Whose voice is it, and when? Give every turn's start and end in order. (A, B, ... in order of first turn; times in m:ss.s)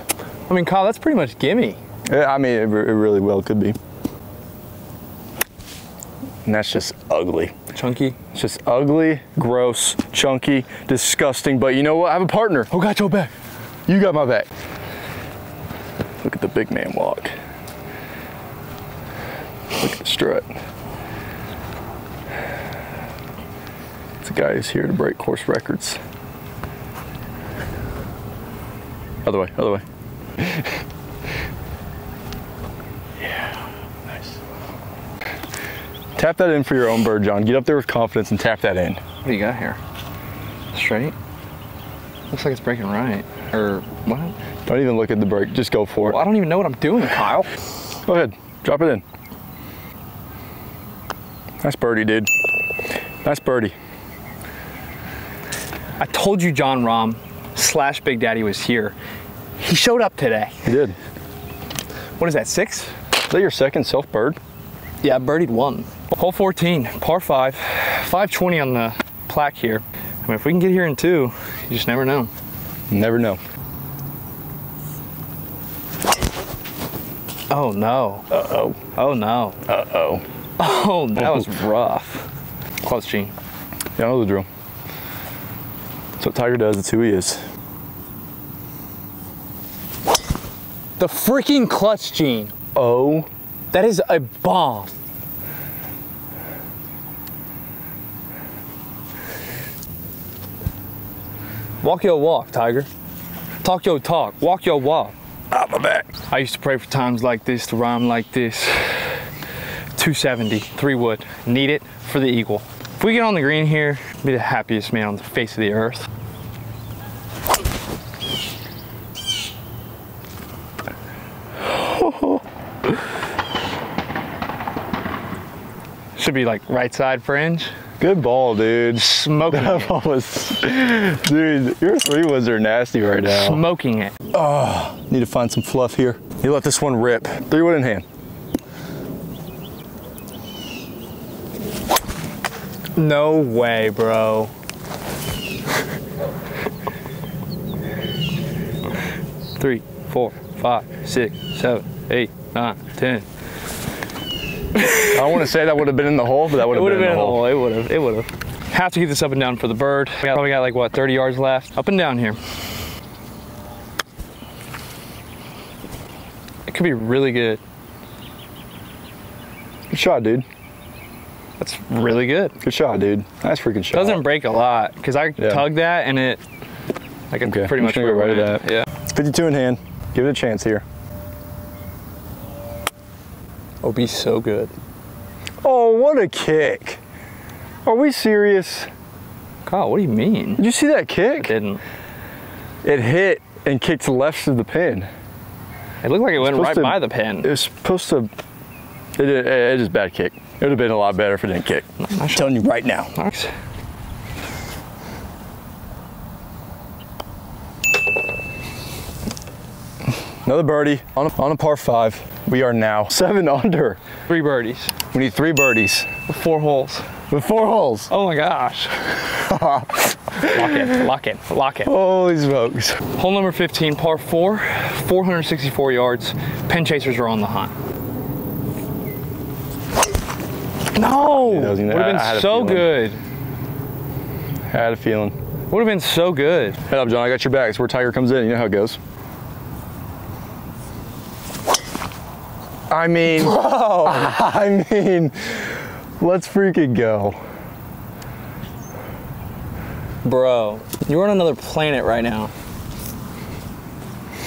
0:00.5-0:01.8 A
0:02.1-0:03.8 B
0:06.4-0:07.5 B
0:07.7-0:08.2 A
0:08.3-0:13.3 B
0:12.9-0:13.3 A
0:13.9-0:14.5 B
0:16.2-0:17.3 B
0:19.8-0:20.5 B
0:24.2-0:26.0 B
0:29.2-0:29.8 B
0:30.4-0:30.6 B
0:36.2-0:39.0 B
0:39.2-0:39.8 A
0:40.7-0:41.1 A
0:42.3-0:44.3 A
0:44.6-0:46.2 B
0:46.1-0:47.5 A
0:48.1-0:49.0 B
0:51.6-0:52.3 B
0:53.2-0:53.8 B
0:56.0-0:58.9 A
0:59.6-1:00.6 A
1:00.6-1:00.9 B
1:02.2-1:02.9 A
1:03.3-1:04.4 B
1:05.0-1:12.3 A
1:12.9-1:13.4 B
1:17.5-1:19.6 A
1:18.3-1:18.8 B
1:19.7-1:20.2 B
1:20.6-1:22.3 A
1:21.2-1:21.5 B
1:22.8-1:23.3 A
1:24.0-1:24.5 B
1:26.2-1:27.4 B
1:31.0-1:32.5 A
1:32.7-1:33.3 B
1:33.7-1:34.9 A
1:41.8-1:42.9 A
1:43.6-1:45.1 A
1:45.5-1:46.1 B
1:46.2-1:49.2 A
1:50.0-1:56.1 A
2:01.6-2:02.4 B
2:06.2-2:07.7 A
2:08.0-2:13.6 B
2:09.0-2:10.0 A
2:13.2-2:14.2 A
2:14.3-2:18.0 B
2:23.0-2:24.5 A
2:29.6-2:33.2 A
2:34.8-2:35.5 A
2:35.1-2:37.5 B
2:36.6-2:42.4 A
2:46.7-2:47.6 A
2:49.9-2:50.4 B
2:51.6-2:52.6 A
2:52.6-2:54.2 B
2:53.9-2:56.4 A
2:55.4-2:55.7 B
2:57.3-2:58.9 A
2:57.4-3:00.8 B
3:03.8-3:04.7 A
3:05.6-3:07.0 B
3:07.8-3:08.9 B
3:09.6-3:10.6 A
3:10.6-3:11.5 B
3:11.4-3:11.8 A
3:12.8-3:15.1 B
3:16.0-3:17.5 A
3:16.4-3:18.3 B
3:19.2-3:23.1 B
3:22.0-3:22.5 A
3:23.2-3:23.5 A
3:30.4-3:34.0 B
3:34.3-3:35.0 A
3:35.1-3:36.1 B
3:36.3-3:37.1 A
3:37.3-3:38.1 B
3:38.1-3:39.2 A
3:39.2-3:41.0 B
3:40.4-3:41.9 A
3:41.8-3:43.0 B
3:43.2-3:47.7 A
3:50.9-3:53.2 A
3:51.5-3:52.9 B
3:54.7-3:55.4 B
3:55.7-3:56.8 A
3:56.9-3:59.0 B
4:02.9-4:07.4 B
4:03.4-4:04.3 A
4:10.2-4:12.5 A